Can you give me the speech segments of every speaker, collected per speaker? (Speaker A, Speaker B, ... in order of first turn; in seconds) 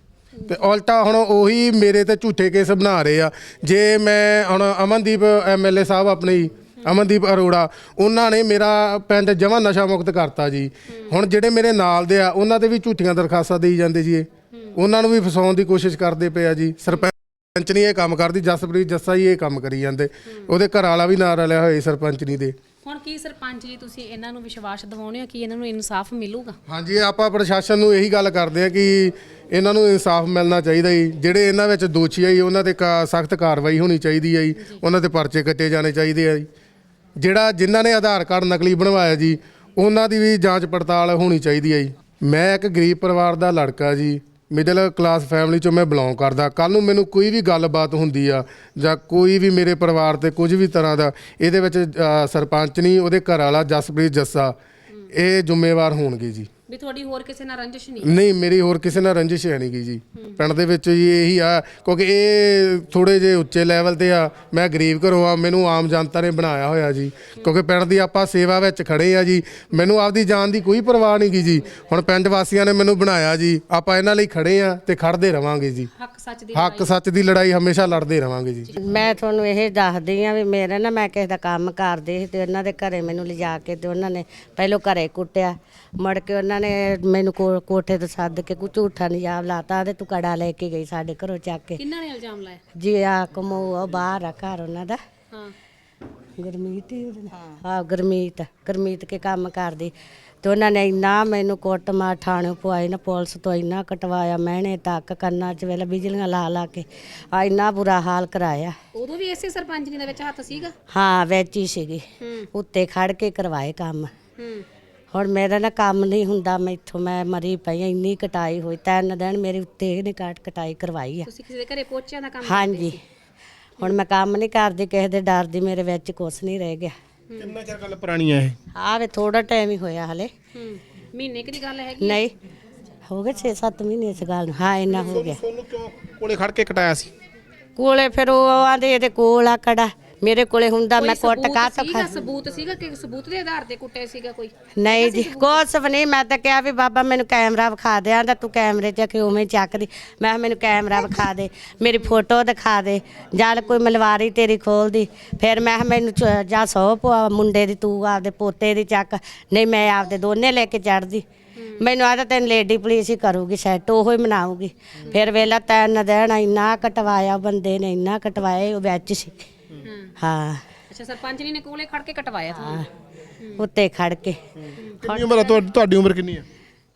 Speaker A: 0.5-22.5, 26.7-36.5, 37.2-54.6, 55.1-56.5, 58.0-75.9, 76.5-78.8
Speaker B: 22.8-26.6, 56.7-58.1, 76.0-76.9, 78.7-79.0, 91.8-92.6, 108.9-110.7, 112.2-112.5, 114.4-114.7, 121.2-123.0, 130.5-132.2, 141.0-145.6, 161.6-161.8, 165.0-165.3, 169.8-170.1, 170.9-172.8, 174.8-175.5
Speaker C: 78.8-91.8, 92.8-95.0, 96.4-108.7, 110.9-114.1, 115.1-121.3, 122.4-123.0, 123.8-126.9, 128.7-130.3, 132.0-132.3, 133.1-135.4, 137.8-142.1, 144.8-161.2, 161.8-169.4, 170.2-170.6, 172.6-172.8, 173.6-174.4
Speaker D: 127.3-128.6, 134.9-137.1, 174.9-176.4